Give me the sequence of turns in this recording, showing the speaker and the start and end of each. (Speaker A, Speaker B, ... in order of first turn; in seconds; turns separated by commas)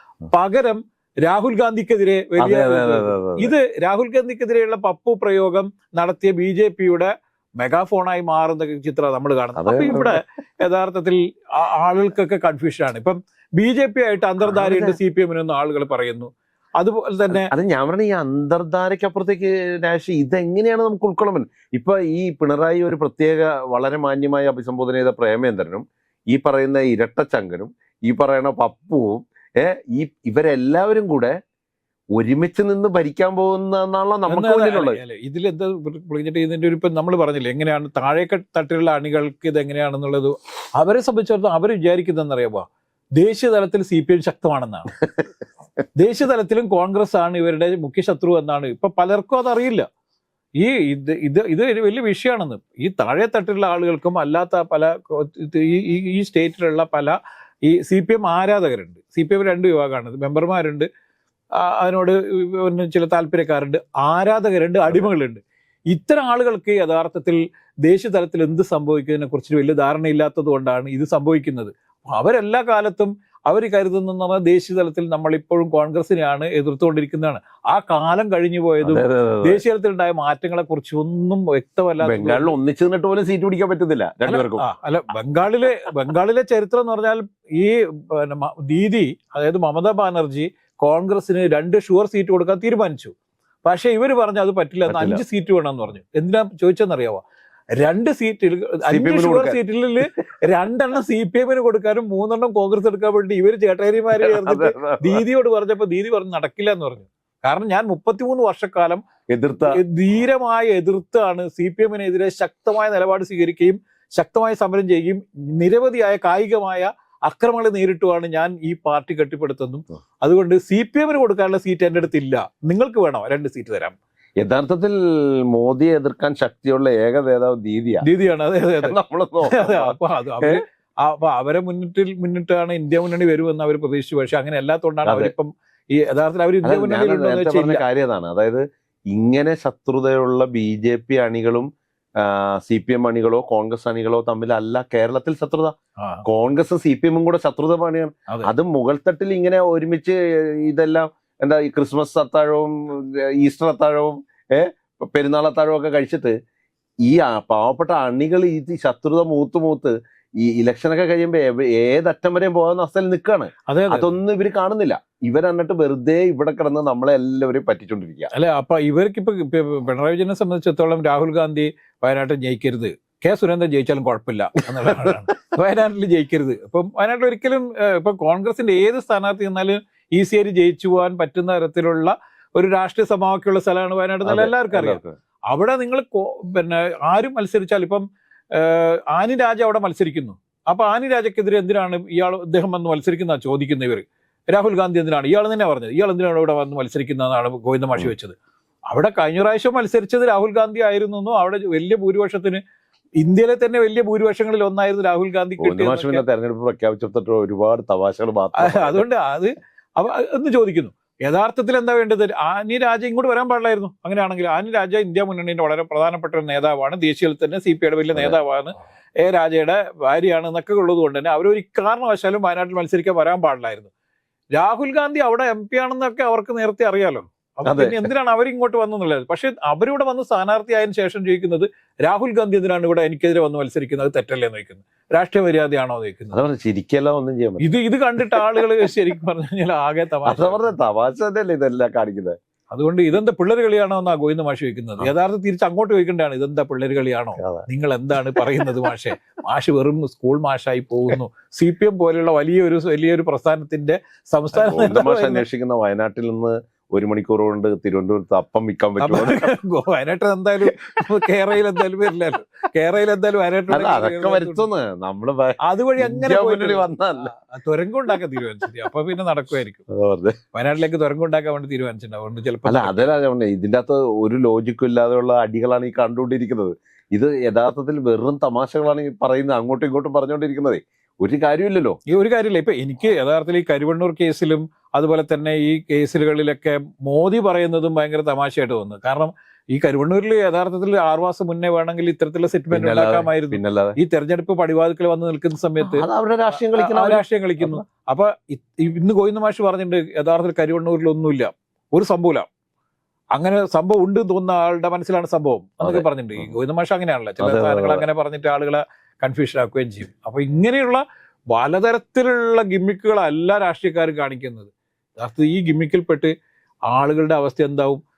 Speaker A: 0.3-17.5, Speaker B: 2.4-3.5, Speaker B: 9.6-10.2, Speaker B: 14.4-15.0, Speaker B: 17.3-31.4, Speaker B: 32.1-35.0, Speaker A: 34.3-42.6, Speaker A: 43.2-45.0, Speaker A: 46.0-49.9, Speaker A: 50.6-60.9, Speaker A: 61.6-82.5, Speaker B: 78.8-79.6, Speaker B: 82.0-84.6, Speaker A: 84.3-93.1, Speaker A: 93.6-97.2, Speaker B: 94.9-95.2, Speaker A: 97.7-109.0, Speaker B: 98.9-99.6, Speaker B: 104.2-105.2, Speaker B: 109.3-109.8, Speaker A: 109.7-124.0, Speaker B: 124.4-128.0, Speaker A: 128.0-129.0, Speaker B: 128.8-130.6, Speaker A: 129.5-137.8, Speaker B: 135.1-135.3, Speaker B: 136.6-156.3, Speaker A: 146.0-146.2, Speaker B: 157.0-168.3, Speaker A: 163.7-164.1, Speaker A: 168.3-198.4, Speaker B: 174.8-175.2, Speaker B: 184.2-185.2, Speaker A: 198.9-202.6, Speaker A: 203.2-206.2, Speaker B: 205.6-209.0, Speaker A: 208.6-223.9, Speaker A: 224.5-236.4, Speaker B: 227.7-228.1, Speaker B: 236.3-238.6, Speaker A: 237.6-240.7, Speaker B: 240.2-242.4, Speaker A: 242.7-255.4, Speaker B: 247.4-247.7, Speaker B: 254.5-259.5, Speaker A: 259.0-264.7, Speaker B: 263.7-267.3, Speaker A: 265.6-269.8, Speaker B: 269.9-270.4, Speaker A: 270.5-273.0, Speaker B: 272.6-282.0, Speaker A: 282.1-296.1, Speaker B: 292.7-294.0, Speaker B: 295.8-297.8, Speaker A: 296.7-302.5, Speaker A: 303.3-316.3, Speaker B: 305.8-306.5, Speaker B: 307.4-308.1, Speaker A: 316.9-318.0